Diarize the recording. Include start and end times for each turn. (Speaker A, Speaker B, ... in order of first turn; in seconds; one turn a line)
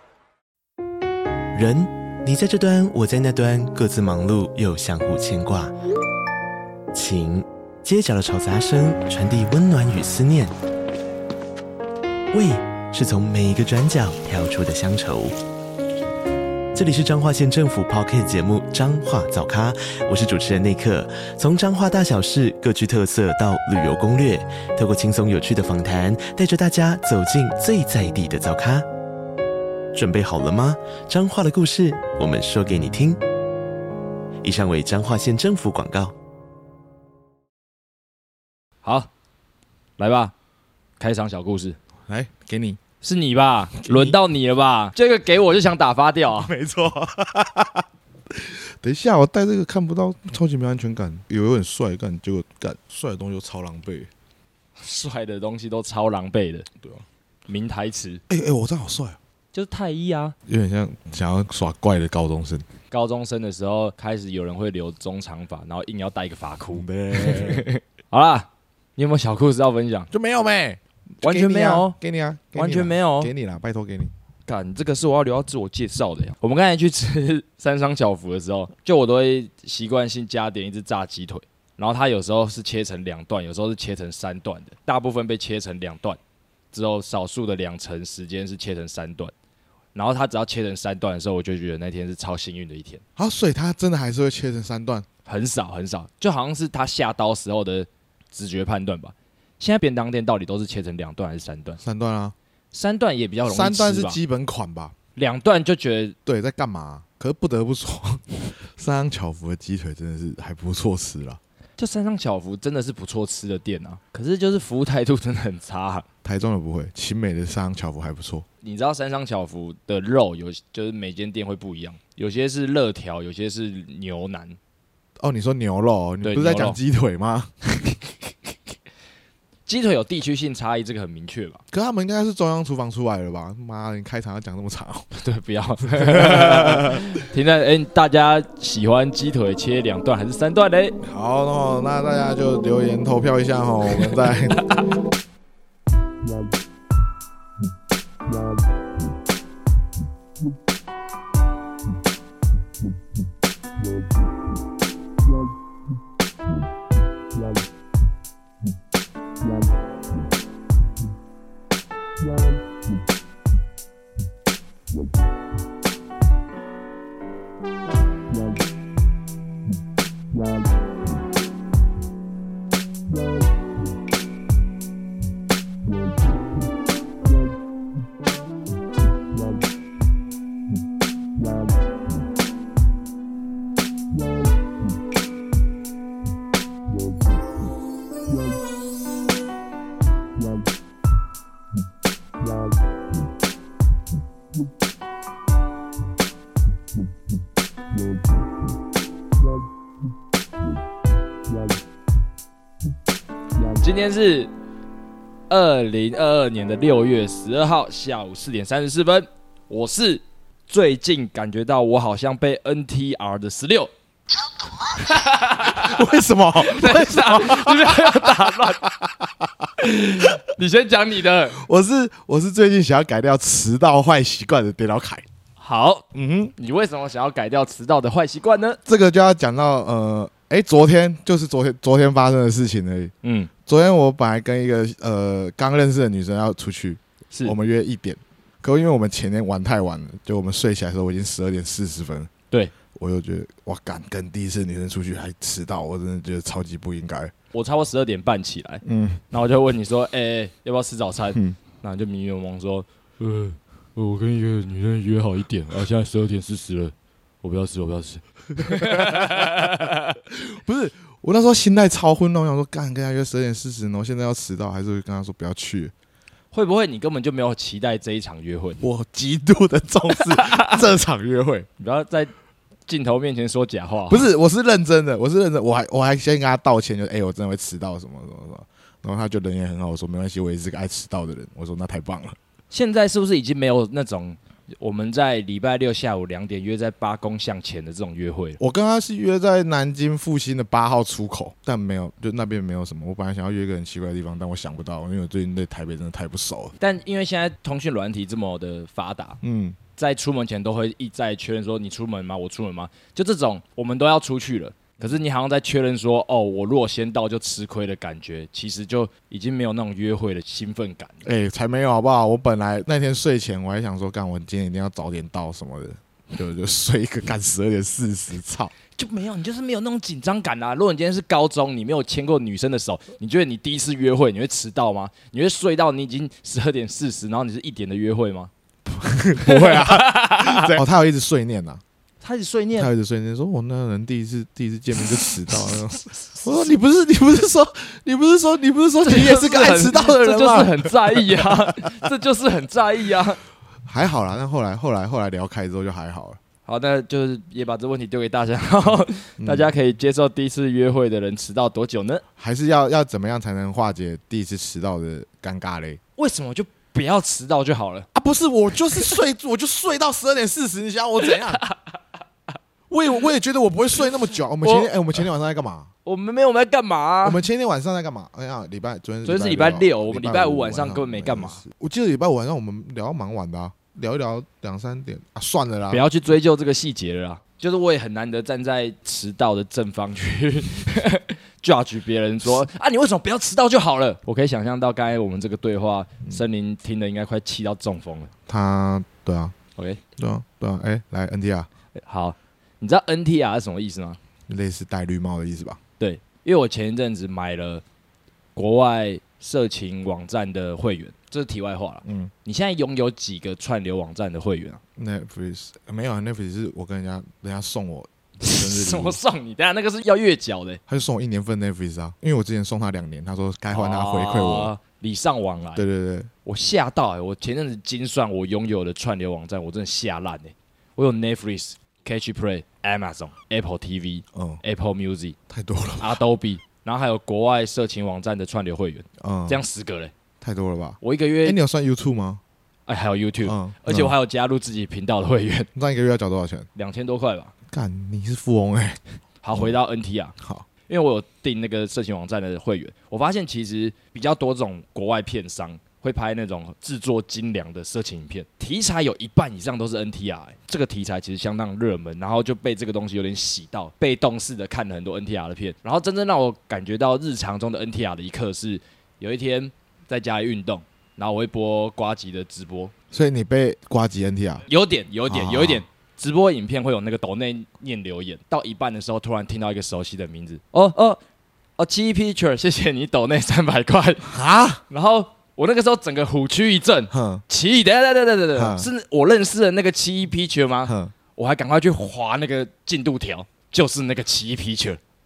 Speaker A: 1.5-5.7
Speaker A: 6.9-10.5
Speaker A: 12.3-15.3
Speaker A: 16.7-28.9
Speaker A: 29.9-33.2
Speaker A: 34.4-36.1
Speaker B: 38.8-39.1
Speaker B: 40.0-40.3
Speaker B: 41.0-41.8
Speaker C: 42.1-42.8
Speaker B: 43.0-46.5
Speaker C: 43.8-44.2
Speaker C: 46.3-54.1
Speaker B: 54.8-56.7
Speaker B: 57.5-58.2
Speaker C: 58.3-59.2
Speaker B: 59.5-60.3
Speaker C: 60.5-62.7
Speaker B: 62.9-70.1
Speaker C: 66.7-67.7
Speaker C: 70.1-74.1
Speaker B: 71.2-72.0
Speaker B: 72.5-73.3
Speaker B: 74.5-86.2
Speaker B: 86.7-89.3
Speaker B: 89.9-93.0
Speaker C: 93.2-95.1
Speaker B: 95.2-101.8
Speaker C: 101.8-102.3
Speaker B: 102.7-104.2
Speaker C: 103.5-104.9
Speaker B: 105.2-106.2
Speaker C: 106.2-111.4
Speaker B: 111.8-116.1
Speaker C: 116.2-118.5
Speaker B: 118.6-124.6
Speaker C: 125.2-128.0
Speaker B: 126.2-126.8
Speaker B: 129.7-131.6
Speaker C: 131.7-135.1
Speaker B: 135.1-141.0
Speaker C: 136.0-137.1
Speaker C: 141.0-144.6
Speaker B: 203.8-204.5
Speaker B: 205.5-213.9
Speaker B: 214.8-218.9
Speaker C: 215.7-219.7
Speaker B: 219.8-221.6
Speaker C: 221.5-225.2
Speaker B: 225.6-228.8
Speaker C: 226.1-226.5
Speaker C: 228.8-233.1
Speaker B: 233.2-233.5
Speaker C: 233.7-242.3
Speaker B: 237.3-237.6
Speaker C: 242.9-247.3
Speaker B: 247.5-260.1
Speaker C: 248.8-249.2
Speaker C: 258.6-259.7
Speaker C: 260.3-265.9
Speaker B: 266.5-268.8
Speaker C: 268.8-271.7
Speaker B: 270.1-270.8
Speaker B: 271.8-272.3
Speaker B: 272.9-274.3
Speaker C: 274.1-282.4
Speaker B: 282.7-288.6
Speaker C: 288.6-296.8
Speaker B: 296.8-299.4
Speaker C: 299.4-299.8
Speaker B: 299.9-311.2
Speaker C: 311.2-318.7
Speaker B: 318.9-328.5
Speaker C: 328.9-331.8
Speaker B: 329.4-330.8
Speaker B: 332.2-332.9
Speaker C: 332.8-342.0
Speaker B: 339.0-343.4
Speaker C: 343.8-346.4
Speaker B: 346.6-352.2
Speaker C: 349.4-349.7
Speaker C: 352.4-356.0
Speaker B: 356.2-358.1
Speaker C: 358.1-361.6
Speaker B: 361.2-361.8
Speaker C: 362.9-365.9
Speaker B: 364.6-365.1
Speaker B: 366.0-367.4
Speaker C: 367.2-376.0
Speaker B: 369.2-371.6
Speaker B: 375.9-388.3
Speaker C: 388.5-389.5
Speaker C: 390.2-391.7
Speaker B: 392.0-394.2
Speaker C: 394.5-395.8
Speaker B: 396.0-397.8
Speaker B: 398.5-404.8
Speaker C: 402.0-402.3
Speaker C: 405.0-409.2
Speaker B: 408.4-410.8
Speaker C: 410.9-414.7
Speaker B: 413.7-415.8
Speaker C: 415.8-416.3
Speaker B: 416.4-425.4
Speaker C: 424.3-424.6
Speaker C: 425.5-426.2
Speaker B: 426.0-430.1
Speaker C: 429.2-429.6
Speaker C: 430.4-432.4
Speaker B: 431.0-431.6
Speaker B: 432.9-435.7
Speaker C: 433.4-434.1
Speaker C: 435.7-436.7
Speaker B: 436.8-437.5
Speaker C: 437.7-439.7
Speaker B: 439.4-440.3
Speaker C: 440.4-440.6
Speaker B: 440.9-462.9
Speaker C: 463.1-464.6
Speaker B: 464.6-471.2
Speaker C: 465.2-465.8
Speaker B: 471.8-474.3
Speaker C: 474.3-474.8
Speaker B: 474.9-485.0
Speaker C: 477.1-477.4
Speaker C: 478.5-478.9
Speaker C: 480.9-481.1